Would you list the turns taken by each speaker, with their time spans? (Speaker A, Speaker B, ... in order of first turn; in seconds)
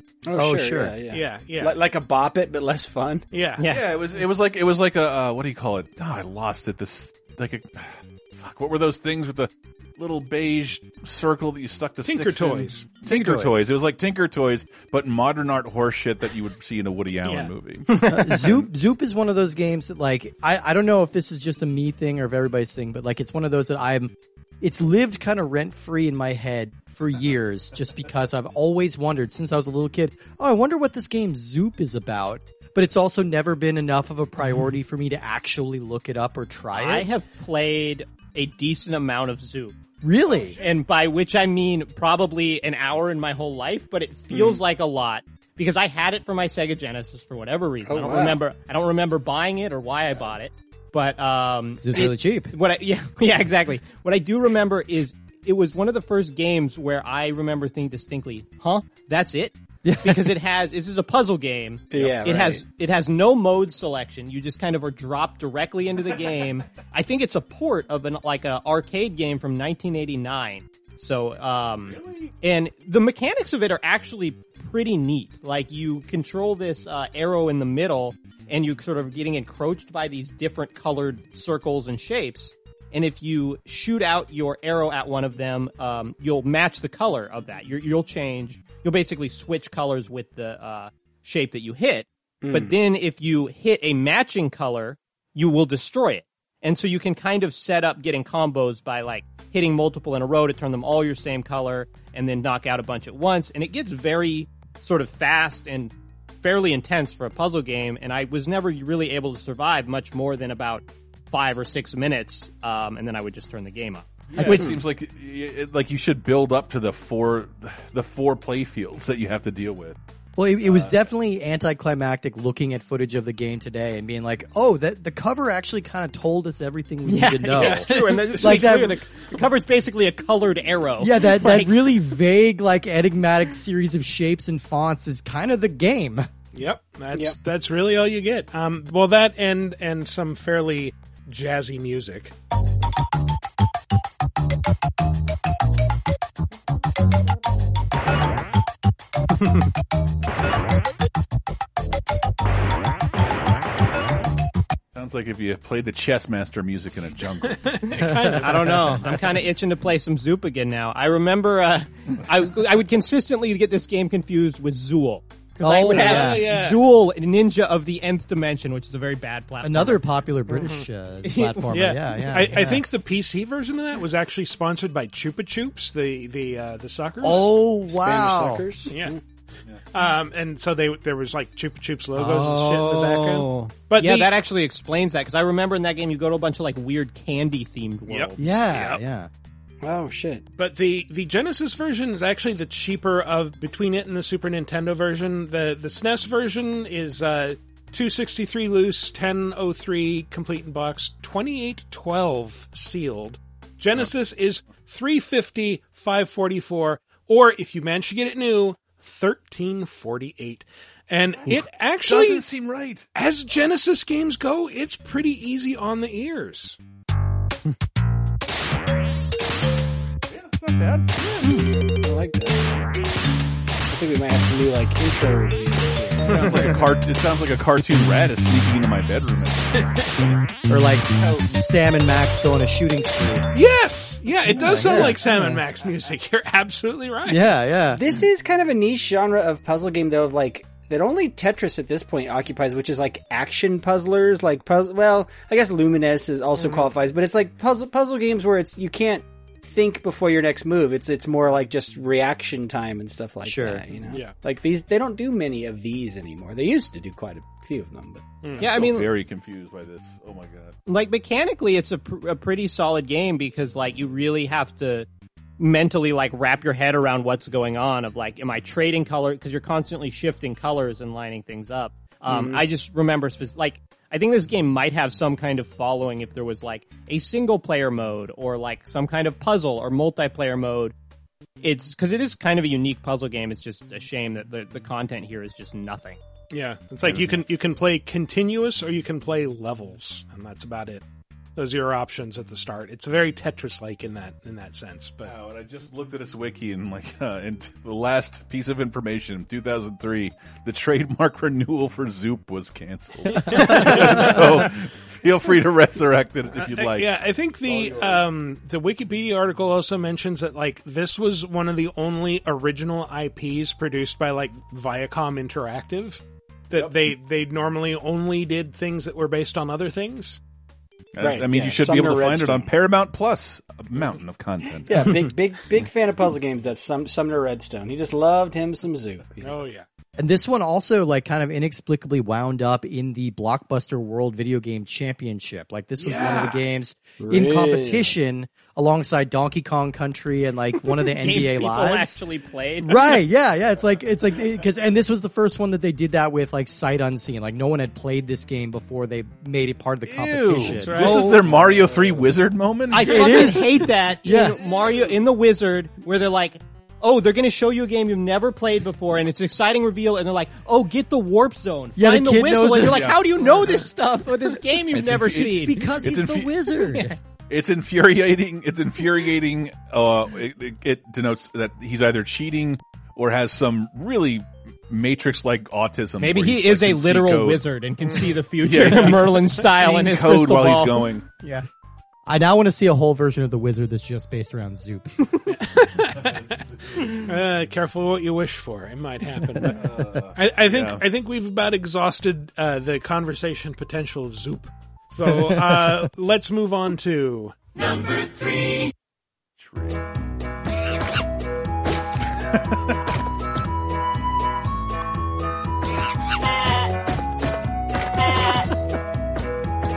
Speaker A: 0.2-3.2, 47.8-48.4, 61.9-62.6, 92.4-92.8, 177.3-179.2, 189.8-190.4, 222.0-222.8, 223.8-226.8, 234.7-235.2, 237.9-258.4, 321.2-322.7, 324.9-329.6, 337.2-338.1
Speaker B: 0.3-0.9, 13.1-13.6, 18.1-37.1, 40.0-40.5, 51.8-52.5, 59.8-60.3, 120.3-129.0, 131.0-136.3, 158.1-158.4, 165.6-166.6, 169.6-172.8, 177.2-178.7, 188.4-189.3, 230.7-233.5, 234.5-235.6, 237.2-238.0, 253.4-253.8, 330.2-342.1, 342.8-351.1, 353.0-354.6, 362.0-363.2, 365.4-367.1, 382.3-385.3, 395.3-395.9
Speaker C: 1.1-1.8, 3.3-3.6, 12.0-13.1, 17.2-17.5, 127.5-129.4, 136.5-142.3, 157.5-159.0, 165.9-166.8, 171.7-177.4, 178.9-179.2, 179.9-184.3, 188.1-189.0, 190.6-212.4, 213.1-216.8, 233.5-237.4, 246.6-246.9, 272.3-272.6, 286.5-291.0, 291.6-295.3, 303.3-304.6, 306.5-320.4, 329.4-329.8, 336.0-336.6, 350.6-351.5, 378.1-379.1, 385.5-397.6
Speaker D: 3.6-3.9, 17.9-18.4, 36.7-39.8, 40.5-114.8, 127.1-131.8, 158.3-170.7, 171.2-171.7, 182.2-188.6, 258.6-259.1, 260.9-265.1, 265.6-280.9, 281.6-286.2, 341.2-343.1, 351.0-351.4, 352.9-365.9, 366.9-367.2, 376.2-381.6
Speaker E: 3.7-18.6, 40.3-40.7, 71.8-72.3, 114.3-120.0, 154.9-157.8, 211.5-213.1, 220.3-221.5, 226.3-229.9, 258.6-260.7, 295.2-307.1, 307.6-308.2, 321.1-324.9, 350.1-353.2, 362.8-363.8, 364.9-366.6, 367.5-377.6, 378.6-381.3, 386.2-387.3, 389.7-391.0, 399.6-400.0